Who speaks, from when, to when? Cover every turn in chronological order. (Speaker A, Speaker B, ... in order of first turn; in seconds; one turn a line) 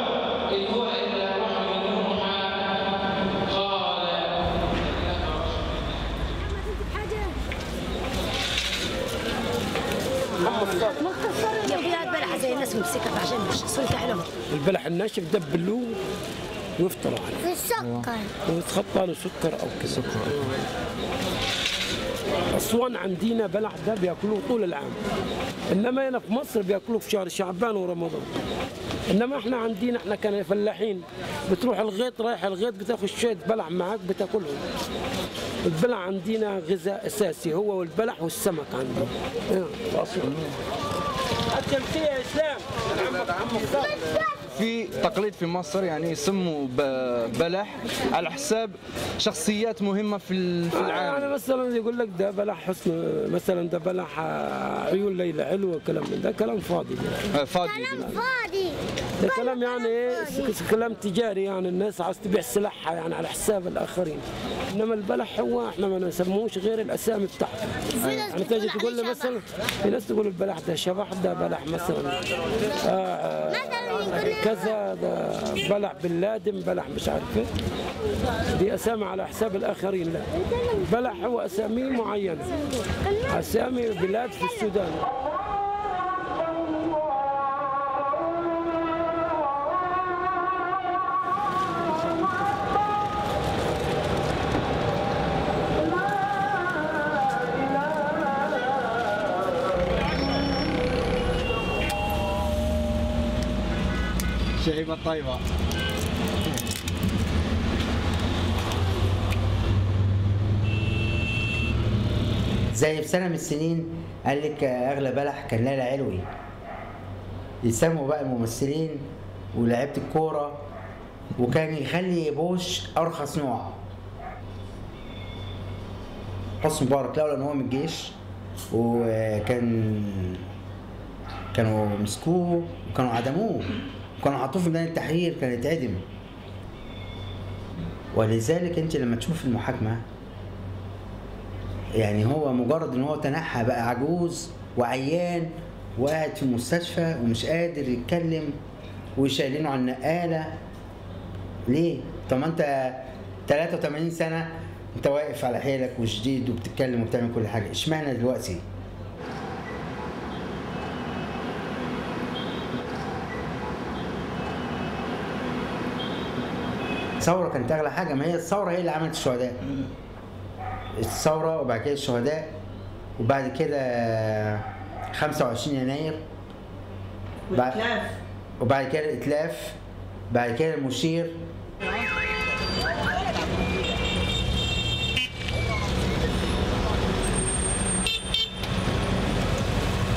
Speaker A: 0.5-2.4
Speaker A: 3.6-4.1
Speaker A: 10.4-11.6
Speaker B: 11.7-12.8
Speaker C: 11.9-14.2
Speaker A: 14.4-16.0
Speaker A: 16.8-17.7
Speaker B: 17.6-18.3
Speaker D: 17.8-18.2
Speaker A: 18.3-20.6
Speaker D: 20.0-20.4
Speaker A: 22.5-25.0
Speaker A: 25.7-28.3
Speaker A: 29.1-34.6
Speaker A: 35.6-40.5
Speaker A: 41.5-44.2
Speaker D: 44.5-51.3
Speaker A: 50.7-57.3
Speaker D: 57.3-58.2
Speaker B: 58.3-58.8
Speaker A: 59.2-77.5
Speaker D: 68.0-68.3
Speaker A: 78.5-85.0
Speaker D: 104.6-105.4
Speaker E: 112.7-116.3
Speaker E: 117.6-120.7
Speaker E: 121.4-123.8
Speaker E: 126.6-128.2
Speaker E: 128.7-130.5
Speaker E: 131.5-136.1
Speaker E: 138.1-140.1
Speaker E: 141.9-148.6
Speaker E: 149.2-150.6
Speaker E: 151.7-158.6
Speaker E: 167.2-169.9
Speaker E: 170.9-172.6
Speaker E: 173.2-176.2
Speaker E: 177.5-179.8
Speaker E: 180.3-181.4